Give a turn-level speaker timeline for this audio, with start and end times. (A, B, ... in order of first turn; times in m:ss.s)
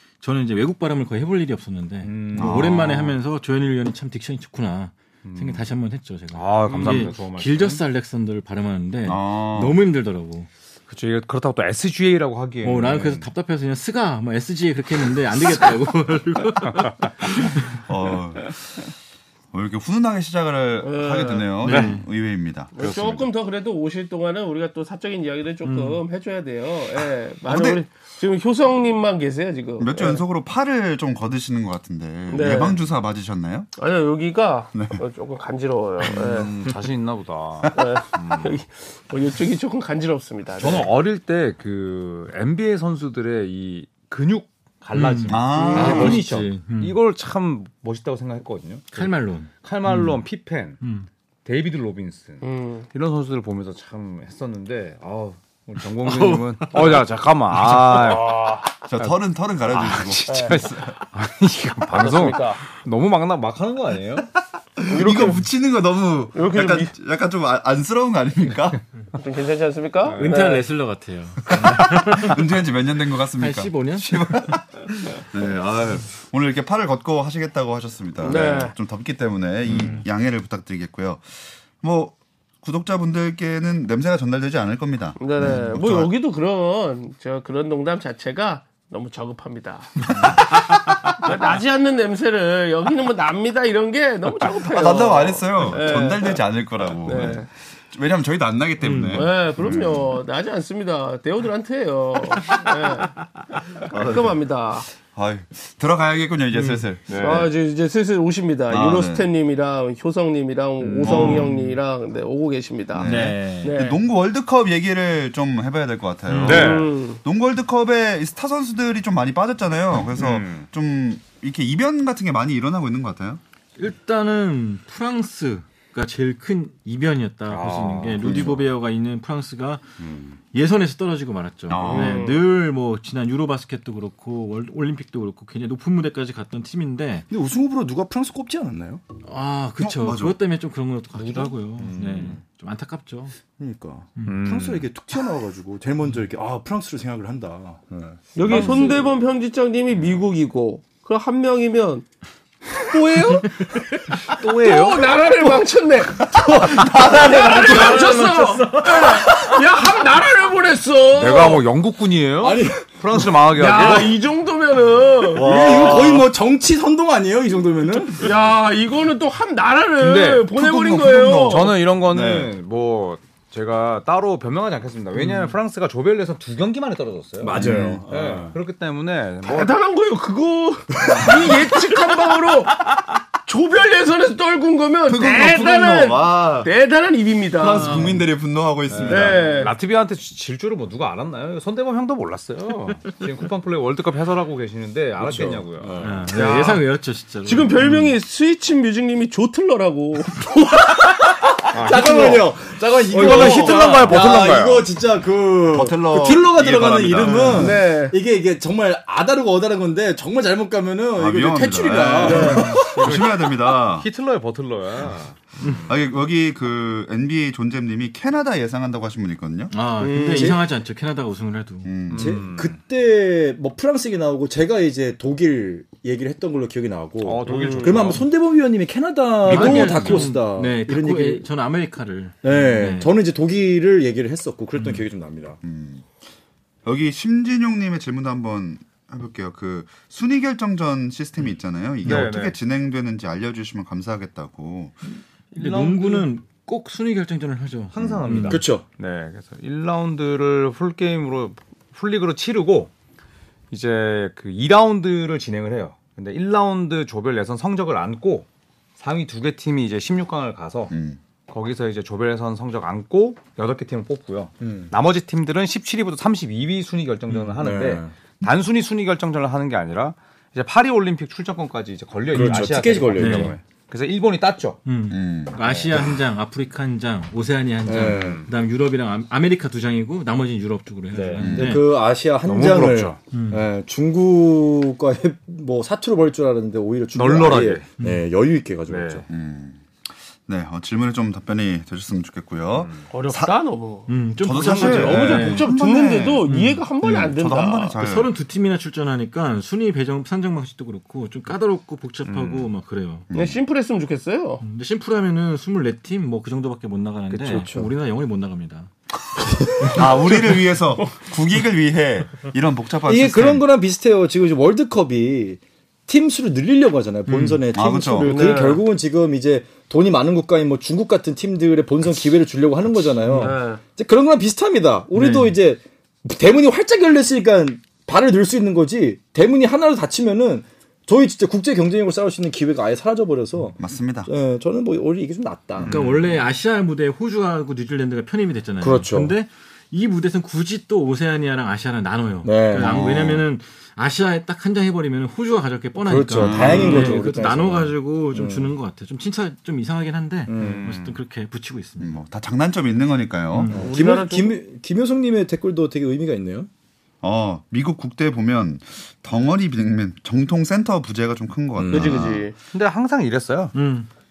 0:00.2-0:10.5 A
0:02.0-0:02.7 B
0:02.4-0:03.1 C
0:05.2-0:05.7 B
0:06.3-0:07.8 B
0:09.0-0:09.8 C
0:10.9-0:13.3 B
0:12.6-0:17.8 A
0:16.6-0:17.0 B
0:17.7-0:18.8 C
0:19.5-0:23.2 C
0:20.8-0:21.5 D
0:21.6-0:22.1 A
0:21.6-0:22.0 B
0:22.8-0:30.2 D
0:25.6-0:26.0 A
0:27.5-0:27.8 C
0:29.8-0:33.7 C
0:32.3-0:32.8 D
0:33.8-0:36.5 D
0:34.7-0:35.0 C
0:36.0-0:38.6 B
0:37.7-0:40.9 D
0:40.6-0:50.8 B
0:44.9-0:47.0 A
0:45.3-0:46.2 C
0:45.5-0:46.2 D
0:48.9-0:50.2 A
0:50.8-0:51.1 A
0:51.4-0:59.2 B
0:52.4-0:52.9 D
0:56.0-0:57.0 A
0:58.9-1:00.7 C
0:59.7-1:04.3 B
1:00.3-1:00.6 D
1:01.9-1:02.6 D
1:04.8-1:08.8 C
1:04.9-1:05.4 D
1:06.3-1:06.9 D
1:09.2-1:10.6 D
1:10.1-1:10.5 B
1:10.1-1:12.6 A
1:11.5-1:26.1 C
1:13.4-1:14.3 A
1:18.2-1:18.8 D
1:19.7-1:20.0 B
1:25.2-1:36.4 D
1:34.5-1:40.1 C
1:37.0-1:37.5 D
1:38.8-1:39.3 A
1:39.1-1:43.2 D
1:43.8-1:44.9 D
1:43.9-1:47.5 C
1:46.5-1:46.8 A
1:47.1-1:47.5 B
1:47.2-1:54.0 D
1:48.7-1:49.3 C
1:50.8-1:51.3 B
1:51.0-1:51.6 C
1:51.1-1:51.8 A
1:53.0-2:03.4 C
1:53.0-1:53.8 A
1:56.3-1:56.8 A
1:56.4-1:56.9 B
1:56.4-1:57.2 D
2:00.2-2:00.7 B
2:03.8-2:09.8 A
2:07.5-2:08.3 B
2:08.2-2:08.7 C
2:10.0-2:10.4 B
2:10.5-2:17.3 A
2:11.7-2:12.3 C
2:11.8-2:12.4 D
2:17.3-2:19.0 E
2:19.2-2:23.4 A
2:19.8-2:20.4 C
2:21.2-2:22.4 B
2:23.6-2:28.9 E
2:24.2-2:24.9 B
2:28.4-2:32.1 D
2:28.5-2:28.8 C
2:28.5-2:29.1 B
2:32.8-2:41.6 D
2:34.2-2:35.2 B
2:36.8-2:37.1 E
2:37.2-2:39.5 A
2:41.2-2:44.2 B
2:42.4-2:43.3 E
2:43.6-2:46.1 D
2:45.3-2:46.3 C
2:45.4-2:48.3 E
2:48.2-2:51.8 D
2:50.0-2:50.6 B
2:50.6-2:52.5 C
2:51.4-2:59.8 B
2:57.4-2:58.5 E
2:57.6-2:58.0 C
2:59.4-3:08.2 D
3:01.1-3:01.4 C
3:05.1-3:06.7 C
3:07.6-3:09.6 C
3:08.9-3:16.8 B
3:09.1-3:09.7 D
3:15.2-3:16.3 E
3:16.0-3:17.8 A
3:16.3-3:16.8 D
3:17.4-3:21.0 D
3:21.1-3:33.2 E
3:21.7-3:22.5 B
3:23.1-3:24.9 B
3:23.2-3:24.1 D
3:25.7-3:27.8 C
3:27.5-3:28.1 D
3:31.2-3:34.1 C
3:32.2-3:32.9 D
3:32.2-3:35.9 B
3:32.3-3:32.7 A
3:35.9-3:39.8 C
3:39.7-3:41.9 A
3:40.0-3:40.6 D
3:41.8-3:42.5 C
3:42.1-3:42.8 B
3:42.1-3:51.5 E
3:47.2-3:48.2 B
3:47.5-3:48.0 D
3:49.4-3:53.2 A
3:49.5-3:50.2 B
3:52.4-3:55.6 E
3:54.8-3:55.0 A
3:55.6-3:56.1 C
3:56.8-4:05.0 C
4:02.0-4:02.3 A
4:02.0-4:02.6 B
4:05.5-4:06.3 B
4:05.6-4:08.6 A
4:07.9-4:12.9 B
4:08.0-4:08.2 C
4:08.5-4:08.8 E
4:13.7-4:18.5 B
4:19.0-4:20.9 B
4:20.9-4:21.2 C
4:21.5-4:34.8 B
4:24.6-4:24.9 E
4:27.6-4:28.1 E
4:32.3-4:33.6 E
4:32.4-4:33.6 A
4:34.9-4:41.8 A
4:35.1-4:36.1 C
4:35.6-4:35.9 B
4:37.8-4:38.4 E
4:38.0-4:38.5 B
4:41.1-4:41.5 B
4:41.4-4:41.8 C
4:41.4-4:49.3 E
4:42.5-4:43.2 B
4:43.3-4:43.6 A
4:47.2-4:47.9 B
4:48.0-4:48.2 A
4:48.9-4:49.2 B
4:49.3-4:49.8 C
4:50.5-4:53.6 C
4:52.8-4:53.1 B
4:53.1-4:58.0 D
4:54.1-4:55.7 A
4:54.4-4:56.5 C
4:56.5-4:56.8 A
4:57.0-4:58.3 C
4:58.0-5:03.3 A
5:02.2-5:02.7 B
5:03.3-5:03.6 C
5:03.3-5:04.6 D
5:04.6-5:08.9 A
5:07.3-5:07.9 E
5:09.4-5:10.1 E
5:09.9-5:13.7 C
5:13.0-5:36.0 E
5:17.3-5:17.6 A
5:17.7-5:18.6 C
5:18.2-5:18.8 D
5:23.3-5:23.6 A
5:23.3-5:23.8 D
5:25.1-5:25.6 A
5:33.8-5:34.3 C
5:35.8-5:36.2 B
5:35.8-5:52.2 A
5:38.8-5:39.3 E
5:42.4-5:43.3 E
5:42.8-5:43.4 C
5:46.0-5:48.7 E
5:46.4-5:47.2 C
5:46.6-5:47.1 B
5:50.5-5:50.9 E
5:50.6-5:51.2 B
5:52.0-5:53.8 C
5:53.5-5:53.8 A
5:53.7-5:56.7 E
5:53.7-5:54.6 D
5:57.2-6:02.4 C
6:01.8-6:02.4 E
6:01.9-6:02.6 D
6:02.7-6:03.8 B
6:03.7-6:04.1 A